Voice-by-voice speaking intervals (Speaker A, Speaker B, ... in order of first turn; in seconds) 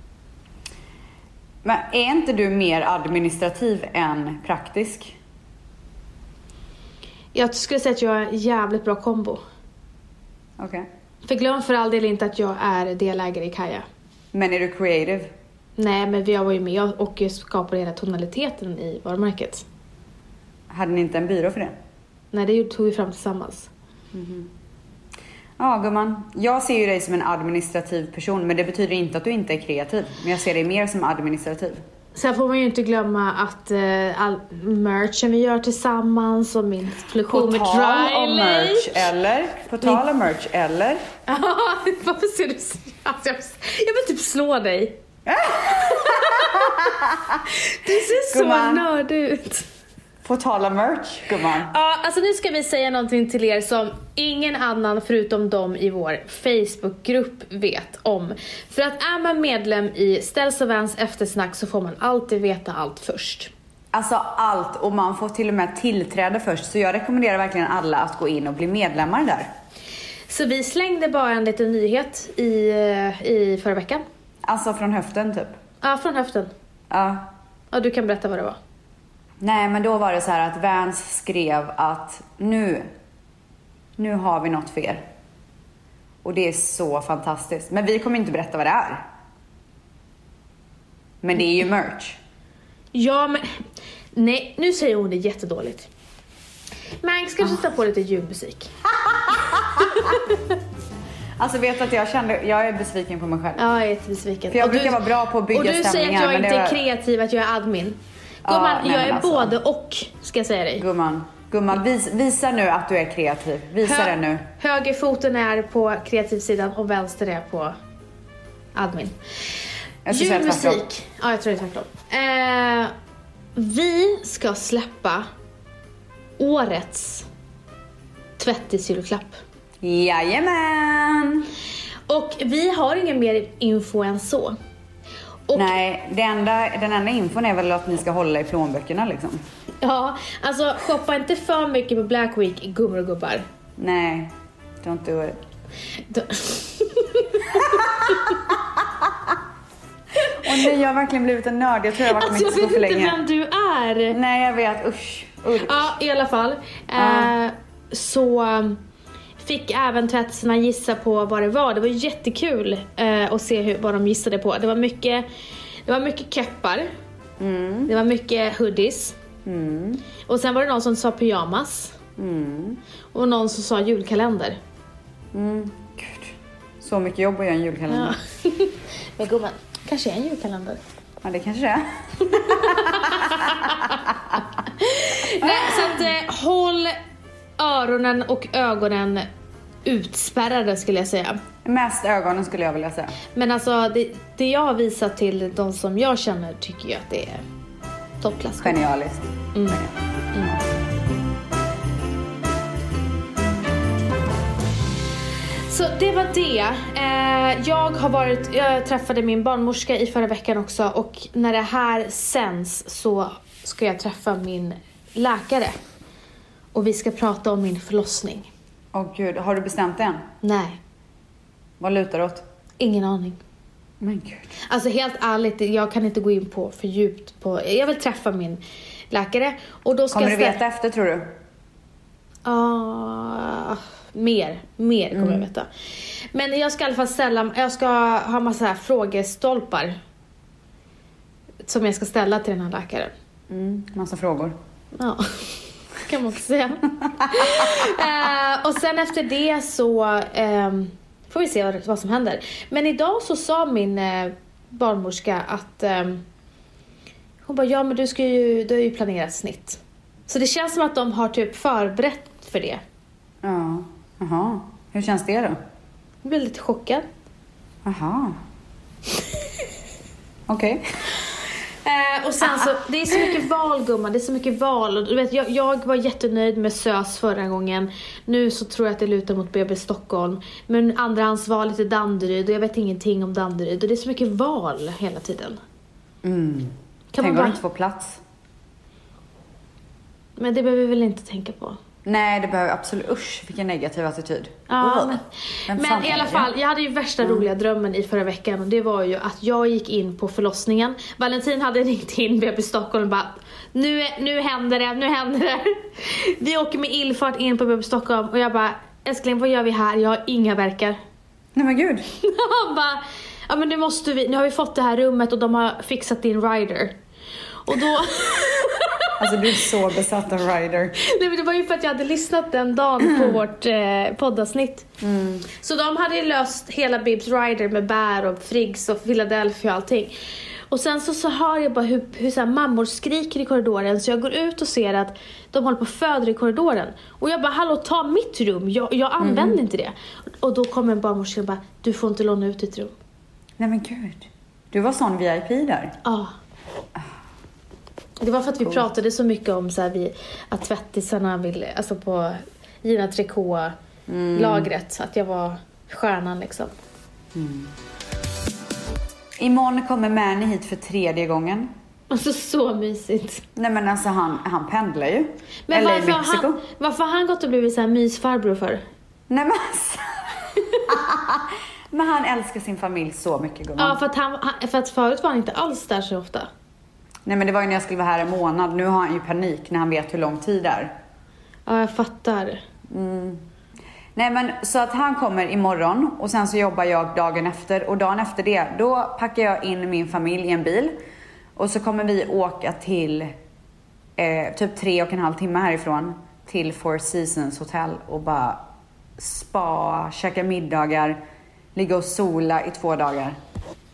Speaker A: 1.6-5.2, 10.6-10.9, 14.3-15.3, 20.7-21.8, 24.1-24.5, 25.6-31.8, 37.3-41.0, 45.3-47.4, 48.2-48.9, 50.2-51.7, 63.9-69.5, 74.5-75.6, 76.9-77.3, 79.4-82.9, 84.0-85.0, 86.2-89.1, 91.2-92.2, 99.1-100.0, 101.4-103.6, 104.5-106.8, 108.5-109.5, 110.8-114.5, 120.1-120.8, 129.8-131.5, 135.5-139.4, 143.8-144.3, 144.8-145.4, 147.7-148.1, 150.4-153.2, 154.1-155.9, 157.0-157.3, 167.4-167.9, 169.4-170.0, 172.2-172.8, 175.3-178.2, 181.2-184.4, 191.7-193.2, 198.6-200.6, 218.9-220.3, 221.8-222.4, 224.0-224.5, 230.1-231.3, 235.1-235.4, 243.5-244.6, 263.4-265.6, 267.9-268.4, 270.5-270.8, 286.2-288.2, 292.1-296.5, 311.6-312.1, 319.2-321.0, 325.0-325.5, 339.2-339.6, 343.6-346.0, 354.1-354.7, 357.4-357.7, 359.4-361.7, 363.6-366.6, 369.3-374.0, 377.3-380.9, 382.9-383.4, 384.2-391.0, 391.6-393.4, 394.2-398.6, 399.2-401.2, 401.8-403.4
Speaker B: 7.3-9.4, 11.2-13.8, 15.8-19.6, 22.3-23.7, 32.1-39.0, 41.3-45.0, 45.7-46.8, 47.7-49.7, 51.6-63.5, 70.3-74.0, 75.8-76.5, 77.7-78.6, 92.9-93.6, 94.1-95.9, 97.0-98.7, 100.0-100.4, 103.6-110.8, 113.8-117.7, 118.8-119.2, 120.1-122.9, 123.5-125.3, 126.4-127.3, 128.4-129.4, 132.1-134.6, 135.5-135.7, 139.8-143.4, 146.1-148.4, 150.4-150.7, 152.0-154.2, 155.5-158.8, 159.4-165.3, 165.9-166.9, 167.9-169.2, 170.3-172.0, 173.1-174.6, 177.9-180.8, 182.2-184.0, 184.7-186.9, 187.6-189.3, 189.8-191.4, 193.3-197.4, 198.2-198.8, 205.7-215.8, 216.7-218.5, 220.4-220.8, 222.8-223.4, 224.7-230.6, 232.4-235.7, 236.3-240.0, 241.6-243.1, 244.9-256.2, 257.4-262.8, 266.2-267.1, 271.8-285.6, 287.1-287.6, 290.4-291.8, 294.7-311.0, 312.2-317.0, 317.6-319.6, 321.0-324.9, 325.5-330.1, 330.7-342.9, 346.0-346.3, 348.2-353.8, 354.3-356.7, 362.1-363.5, 365.7-368.8, 373.8-376.5, 381.7-382.6